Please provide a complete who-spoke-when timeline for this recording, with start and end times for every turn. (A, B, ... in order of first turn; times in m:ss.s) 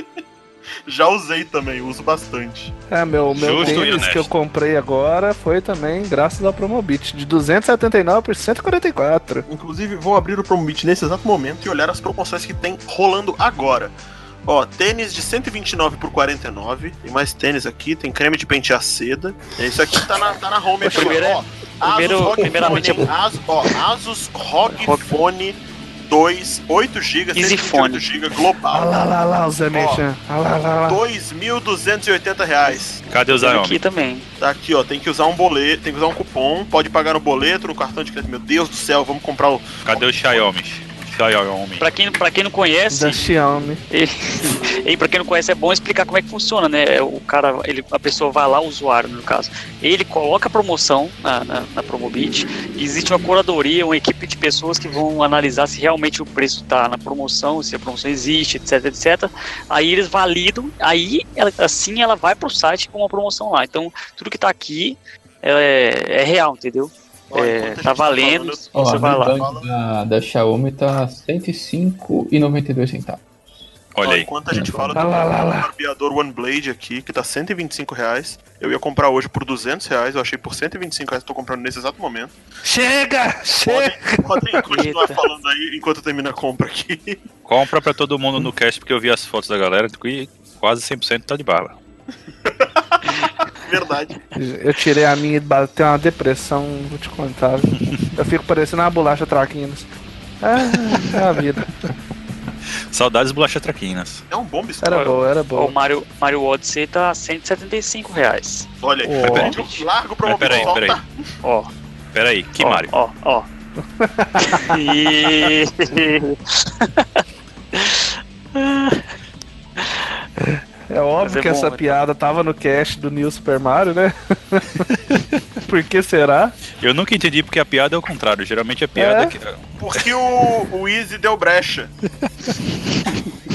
0:00.9-0:02.7 A
0:02.9-0:09.4 B
0:03.3-0:04.3 C
0:03.5-0:03.9 A
0:09.5-0:29.0 A
0:20.8-0:21.2 B
0:20.9-0:23.1 D
0:24.6-0:25.2 D
0:27.3-0:28.0 D
0:28.7-0:31.0 B
0:29.7-0:30.0 A
0:30.8-0:33.0 A
0:33.1-0:33.8 C
0:33.3-0:34.3 D
0:34.4-0:40.4 A
0:39.8-0:41.8 C
0:41.8-0:43.2 D
0:42.9-0:43.8 B
0:43.9-1:09.4 D
1:07.3-1:09.7 A
1:08.7-1:13.2 E
1:13.9-1:14.3 C
1:14.0-1:22.3 A
1:14.5-1:15.0 E
1:14.9-1:15.7 B
1:22.6-1:24.6 B
1:23.6-1:27.2 A
1:24.7-1:25.2 D
1:27.4-1:31.8 C
1:32.4-1:34.2 A
1:34.3-1:39.9 B
1:40.4-1:41.7 B
1:42.9-1:44.2 C
1:44.3-1:45.2 A
1:44.8-1:45.8 B
1:44.9-1:48.7 D
1:48.8-1:51.1 A
1:49.1-1:49.5 B
1:49.2-1:49.6 C
1:49.2-1:49.8 D
1:50.2-1:51.0 C
1:50.5-1:50.7 D
1:51.4-1:51.7 D
1:52.1-1:52.9 C
1:52.8-1:53.5 D
1:54.0-1:54.8 B
1:54.4-1:57.2 D
1:57.7-1:59.0 D
2:00.4-2:04.8 B
2:01.2-2:02.0 D
2:05.6-2:06.6 B
2:06.8-2:10.1 C
2:08.9-2:09.3 B
2:09.8-2:11.9 A